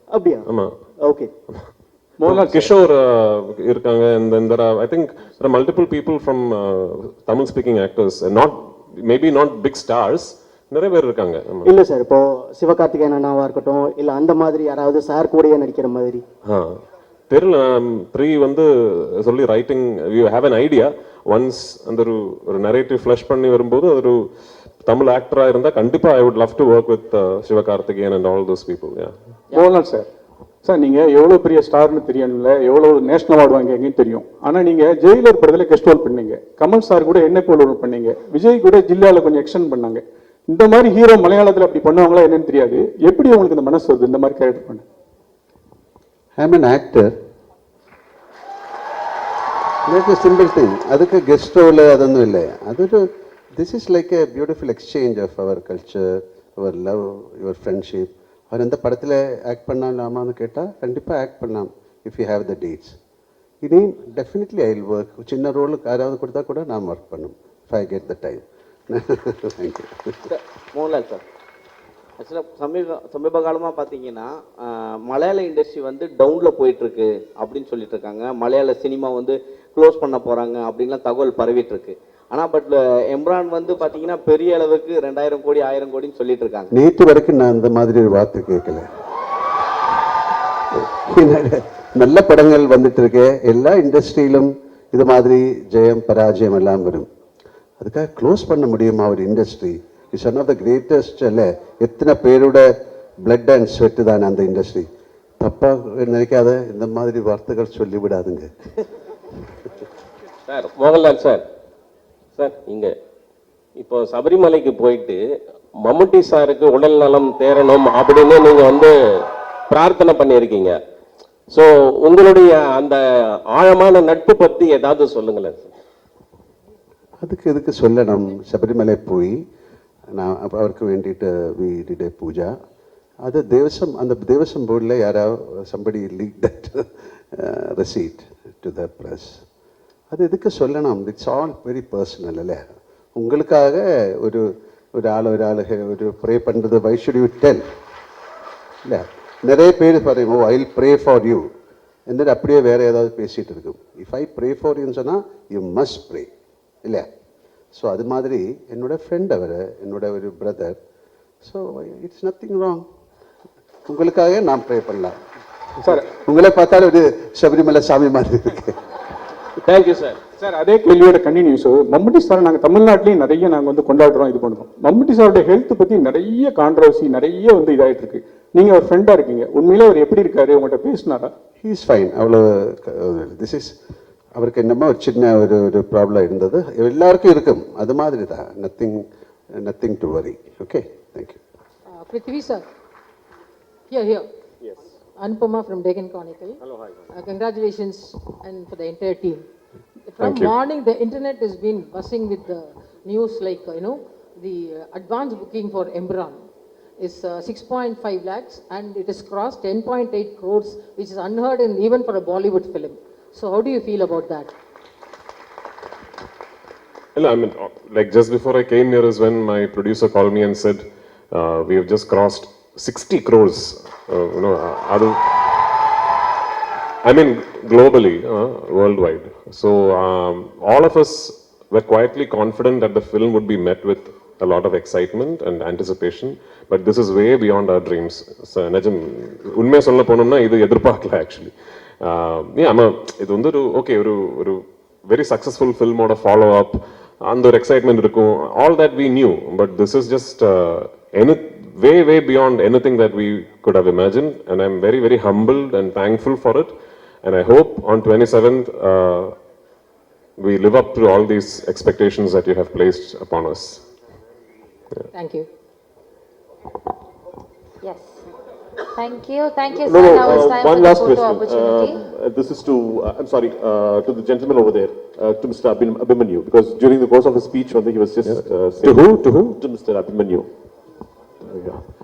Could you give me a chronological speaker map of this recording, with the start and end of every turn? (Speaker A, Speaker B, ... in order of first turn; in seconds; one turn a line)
Speaker A: 0.1-0.5
Speaker B: 0.5-0.7
Speaker A: 1.1-1.3
Speaker C: 2.2-2.7
Speaker B: 2.2-11.7
Speaker A: 11.7-16.2
Speaker B: 16.5-16.8
Speaker B: 17.3-24.2
Speaker B: 24.9-29.1
Speaker C: 29.5-30.1
Speaker C: 30.6-44.8
Speaker D: 46.4-47.1
Speaker D: 49.9-63.0
Speaker D: 63.6-70.1
Speaker E: 70.3-71.2
Speaker E: 72.2-86.7
Speaker D: 86.7-88.9
Speaker D: 90.7-97.1
Speaker D: 97.8-102.7
Speaker D: 103.2-104.9
Speaker D: 105.4-108.5
Speaker F: 110.5-111.4
Speaker F: 112.4-112.9
Speaker F: 113.8-115.2
Speaker F: 115.8-120.8
Speaker F: 121.5-123.0
Speaker F: 123.5-125.7
Speaker D: 127.2-129.4
Speaker D: 130.1-132.5
Speaker D: 133.2-139.4
Speaker D: 140.1-142.6
Speaker D: 143.2-147.6
Speaker D: 148.8-151.5
Speaker D: 152.1-156.3
Speaker D: 157.8-160.8
Speaker D: 161.4-162.8
Speaker D: 163.9-165.2
Speaker D: 165.8-168.8
Speaker F: 169.7-170.2
Speaker C: 170.4-181.3
Speaker D: 181.6-183.7
Speaker D: 184.4-189.1
Speaker D: 189.6-191.4
Speaker G: 192.0-192.6
Speaker G: 193.9-194.2
Speaker G: 195.2-196.6
Speaker G: 197.1-199.4
Speaker G: 200.1-206.4
Speaker B: 200.2-200.5
Speaker G: 207.0-214.5
Speaker B: 217.2-225.2
Speaker B: 227.0-256.7
Speaker B: 257.2-259.3
Speaker B: 260.4-263.8
Speaker G: 265.1-265.5
Speaker H: 267.8-268.2
Speaker H: 268.9-272.0
Speaker I: 269.8-280.5
Speaker B: 278.3-279.5
Speaker I: 281.4-281.8